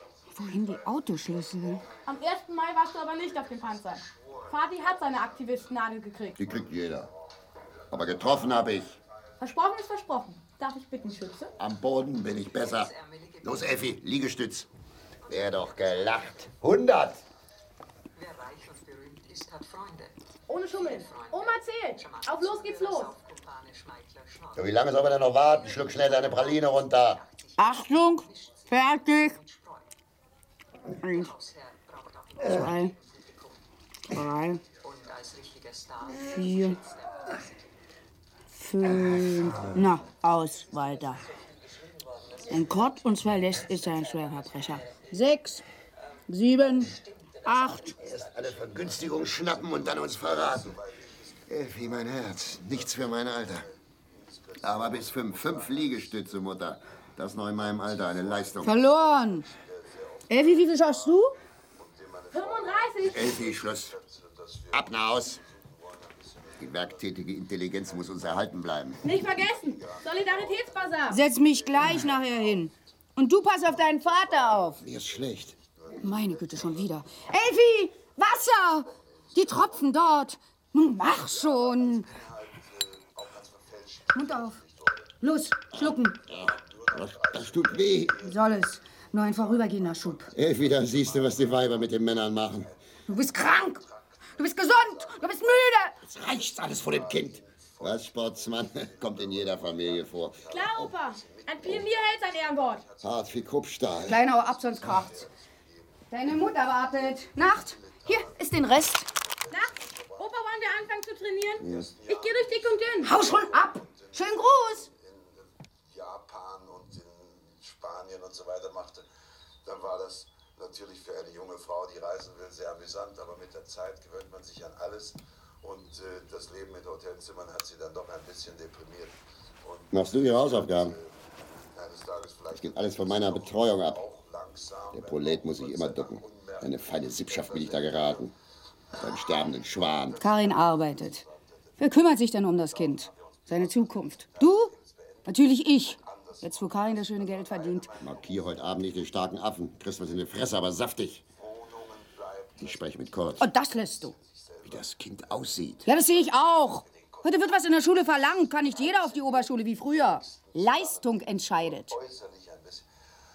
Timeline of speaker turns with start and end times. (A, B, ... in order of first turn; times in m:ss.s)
0:00.2-0:02.3 A
0:00.3-0:01.8 B
0:02.0-0:06.4 C
0:03.1-0:05.7 A
0:06.4-0:07.1 D
0:06.4-0:09.1 A
0:07.9-0:09.0 D
0:09.4-0:11.5 C
0:11.0-0:11.5 A
0:11.6-0:12.9 D
0:12.4-0:13.9 E
0:13.4-0:14.7 D
0:15.2-0:16.2 E
0:15.3-0:17.2 D
0:18.1-0:29.9 E
0:20.5-0:23.1 C
0:24.6-0:27.2 D
0:27.6-0:29.4 B
0:31.0-0:33.6 E
0:31.0-0:31.3 B
0:32.4-0:32.9 B
0:34.1-0:34.6 B
0:34.8-0:37.6 E
0:36.2-0:36.8 B
0:38.5-0:41.2 B
0:39.0-0:39.8 D
0:40.6-0:45.1 E
0:42.5-0:45.6 B
0:46.3-0:46.9 B
0:46.7-0:49.0 E
0:47.4-0:47.9 B
0:48.0-0:50.8 D
0:48.9-0:56.5 A
0:51.5-0:53.7 D
0:54.6-0:58.8 D
0:57.5-1:12.7 A
0:58.6-0:59.5 B
1:00.3-1:01.3 B
1:02.3-1:03.4 C
1:03.1-1:03.9 D
1:04.7-1:05.4 D
1:06.6-1:09.0 D
1:09.0-1:11.2 C
1:11.1-1:14.8 B
1:13.6-1:16.9 A
1:14.8-1:15.5 D
1:16.0-1:22.1 B
1:18.9-1:19.9 A
1:21.1-1:25.1 A
1:24.1-1:24.6 B
1:25.2-1:26.2 B
1:25.8-1:28.2 D
1:25.8-1:50.7 A
1:28.2-1:30.3 B
1:30.3-1:32.7 D
1:33.1-1:33.8 B
1:34.4-1:36.0 B
1:36.0-1:40.4 D
1:40.5-1:42.8 C
1:43.0-1:44.2 D
1:44.0-1:45.2 B
1:46.1-1:49.1 B
1:49.5-1:53.2 C
1:51.6-1:59.0 A
1:51.6-1:51.9 D
1:53.0-1:54.9 B
1:59.6-2:11.1 A
2:09.9-2:11.0 D
2:11.7-2:18.3 A
2:12.6-2:14.0 D
2:14.9-2:18.3 D
2:18.9-2:21.9 A
2:19.0-2:20.2 D
2:20.2-2:21.2 B
2:21.8-2:24.7 B
2:22.5-2:28.7 A
2:25.2-2:27.9 B
2:28.0-2:31.2 D
2:31.4-2:42.8 A
2:32.6-2:33.5 D
2:33.4-2:34.2 B
2:34.6-2:35.9 D
2:35.8-2:41.9 B